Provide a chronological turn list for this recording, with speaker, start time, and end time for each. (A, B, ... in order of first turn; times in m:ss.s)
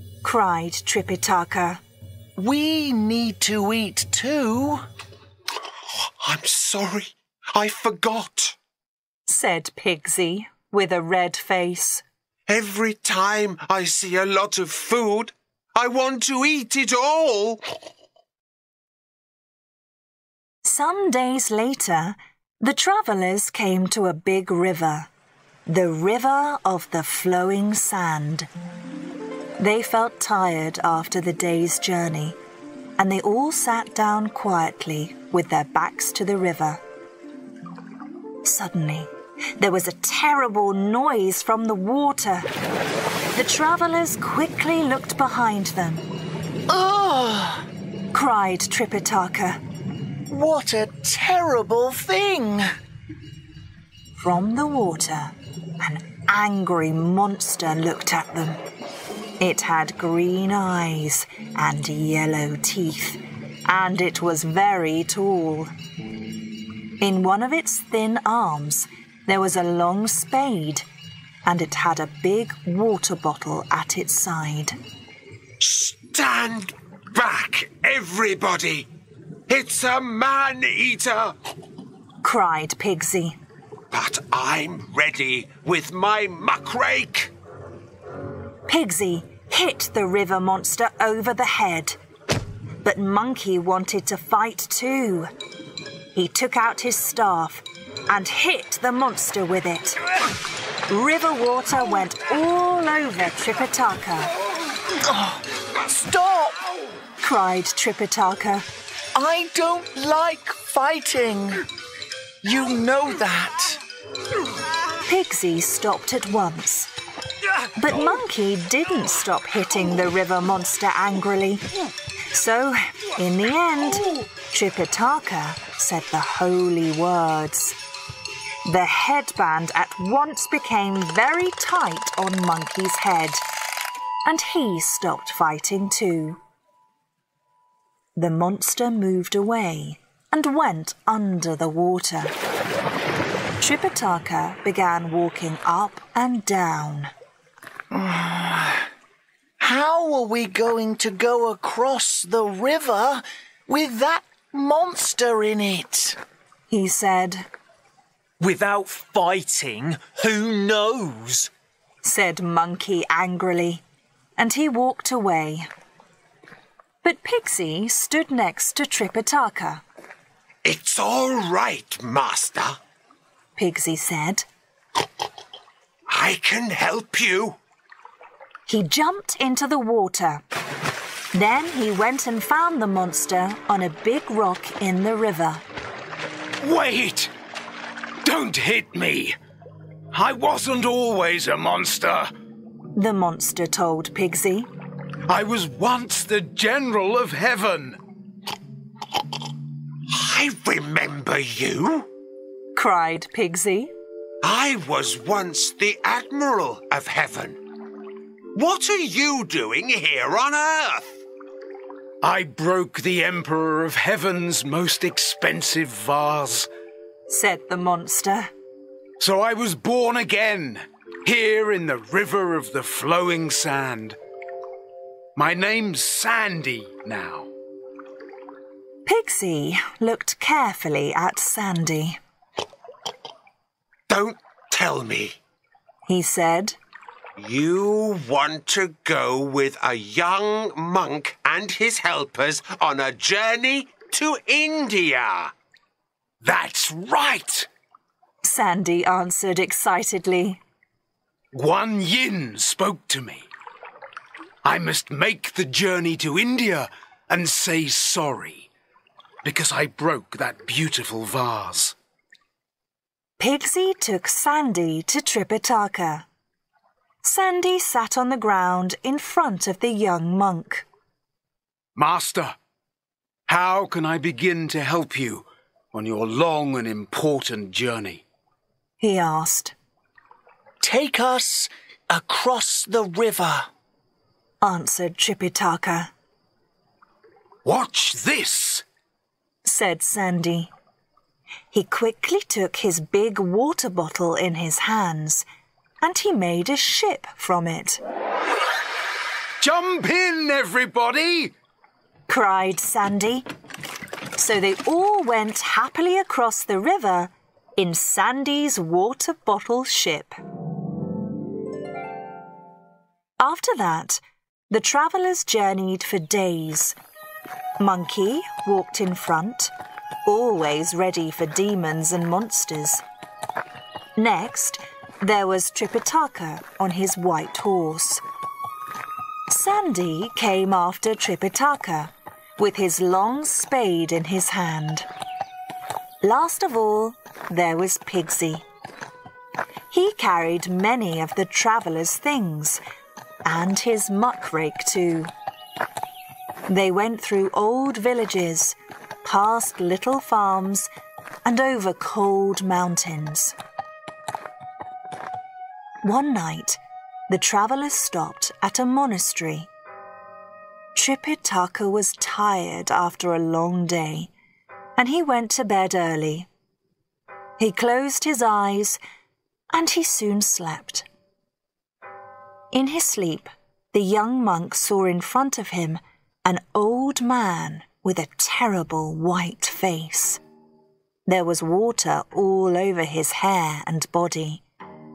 0:00.2-0:01.8 A
0:02.4-0:04.7 B
0:05.9-0:08.6 C
0:09.3-0:12.0 A
0:12.5-0:17.6 C
0:20.6-0:25.1 A
0:25.7-0:28.5 A
0:29.6-0:32.4 A
0:33.0-0:36.8 A
0:38.4-0:42.5 A
0:43.3-0:46.0 A
0:46.7-0:47.7 B
0:48.1-0:49.6 A
0:50.3-0:52.7 B
0:54.2-0:58.6 A
0:59.4-1:05.7 A
1:07.0-1:10.8 A
1:11.4-1:14.8 A
1:15.6-1:18.9 C
1:19.5-1:21.3 C
1:22.2-1:23.4 A
1:23.9-1:27.3 C
1:28.7-1:32.0 A
1:32.8-1:35.3 A
1:36.1-1:40.0 A
1:40.9-1:44.3 A
1:44.9-1:46.6 B
1:47.2-1:48.6 A
1:49.1-1:51.6 B
1:52.4-1:53.8 B
1:55.0-1:56.9 A
1:57.8-2:01.6 A
2:02.3-2:07.8 A
2:08.6-2:13.4 A
2:14.2-2:16.4 A
2:18.2-2:22.3 A
2:23.6-2:27.1 A
2:27.9-2:28.9 B
2:29.6-2:36.2 B
2:36.7-2:37.5 A
2:38.4-2:41.5 D
2:42.0-2:43.8 A
2:44.4-2:45.7 A
2:47.0-2:49.8 A
2:50.6-2:52.8 C
2:53.6-2:54.4 A
2:56.1-2:57.6 C
2:58.7-3:00.4 A
3:01.3-3:05.6 A
3:06.6-3:07.3 E
3:08.2-3:09.4 E
3:10.1-3:12.3 E
3:12.9-3:14.7 A
3:15.3-3:18.0 E
3:20.1-3:22.1 C
3:22.7-3:23.9 A
3:24.4-3:27.6 C
3:28.5-3:31.2 C
3:32.2-3:36.7 E
3:37.3-3:38.5 A
3:39.2-3:44.2 E
3:45.4-3:47.5 E
3:49.0-3:52.2 A
3:54.1-3:55.4 C
3:56.1-3:56.8 A
3:57.4-4:05.5 C
4:06.4-4:07.7 E
4:08.4-4:10.6 A
4:11.5-4:13.5 E
4:14.6-4:18.7 E
4:19.4-4:22.0 E
4:23.4-4:26.3 A
4:27.2-4:30.8 A
4:32.0-4:32.6 E
4:33.5-4:38.2 E
4:39.0-4:39.7 A
4:40.8-4:43.7 B
4:44.6-4:46.1 A
4:47.6-4:48.8 E
4:49.6-4:50.7 A
4:51.7-4:55.4 A
4:56.0-4:58.0 A
4:59.6-5:01.5 E
5:02.3-5:03.4 A
5:04.4-5:10.3 A
5:13.4-5:17.0 A
5:17.8-5:19.7 A
5:20.2-5:23.0 A
5:24.2-5:28.2 A
5:29.5-5:35.1 A
5:36.2-5:38.6 A
5:39.9-5:42.8 A
5:43.4-5:45.3 A
5:46.7-5:50.9 A
5:51.4-5:53.6 A
5:56.0-5:59.7 A
6:00.9-6:04.3 A
6:05.0-6:06.5 A
6:07.6-6:09.0 A
6:09.7-6:11.0 A
6:12.7-6:20.4 A
6:21.3-6:24.6 A